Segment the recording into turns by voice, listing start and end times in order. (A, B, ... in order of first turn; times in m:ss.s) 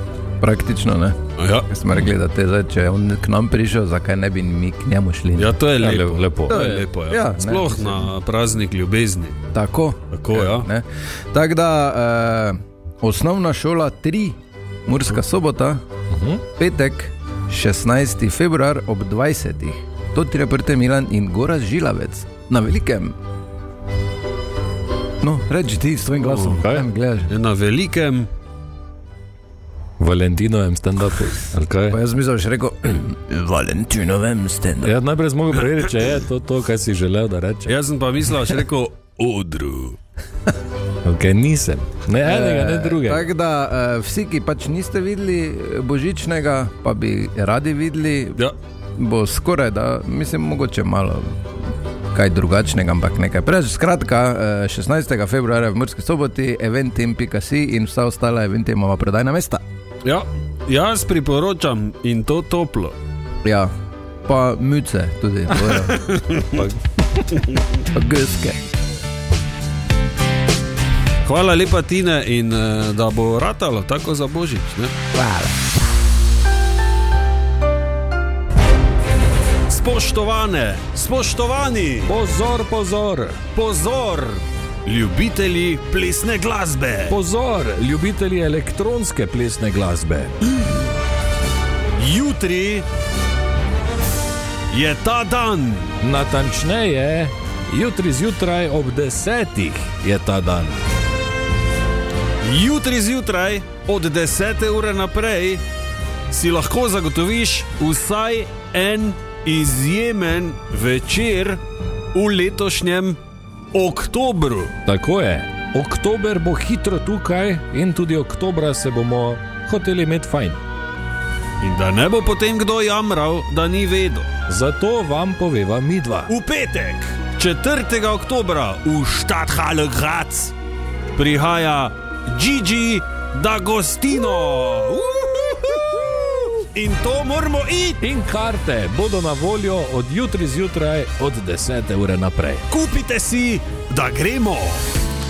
0:00.4-0:05.6 A
0:01.4-0:01.7 B
0:05.3-0:09.3 B
0:05.8-0:06.6 C
0:06.5-0:08.1 A
0:09.5-0:15.8 A
0:10.1-0:10.7 B
0:16.1-0:16.4 C
0:16.5-0:23.2 A
0:25.2-0:27.3 A
0:26.2-0:26.7 B
0:26.6-0:26.8 C
0:27.3-0:28.3 B
0:30.0-0:32.0 C
0:31.9-0:34.9 A
0:34.8-0:37.7 C
0:37.6-0:40.0 B
0:41.0-0:43.2 C
0:42.2-0:48.4 A
0:49.0-0:51.4 A
0:52.1-0:59.6 A
1:00.0-1:03.0 B
1:03.4-1:03.7 A
1:04.2-1:06.0 A
1:05.6-1:06.6 B
1:06.5-1:06.8 C
1:07.4-1:07.6 B
1:07.9-1:08.6 A
1:11.2-1:14.9 B
1:15.1-1:15.6 A
1:19.7-1:22.2 B
1:22.0-1:23.4 C
1:23.5-1:27.2 B
1:27.1-1:30.4 C
1:32.0-1:32.8 B
1:34.7-1:35.9 B
1:36.0-1:40.8 C
1:42.4-1:45.6 B
1:46.3-1:51.6 B
1:52.1-1:53.2 B
1:53.7-1:54.8 B
1:54.8-2:00.6 C
2:01.6-2:04.3 B
2:04.5-2:06.3 C
2:06.3-2:10.5 B
2:11.1-2:18.0 B
2:18.0-2:22.7 C
2:22.7-2:24.8 B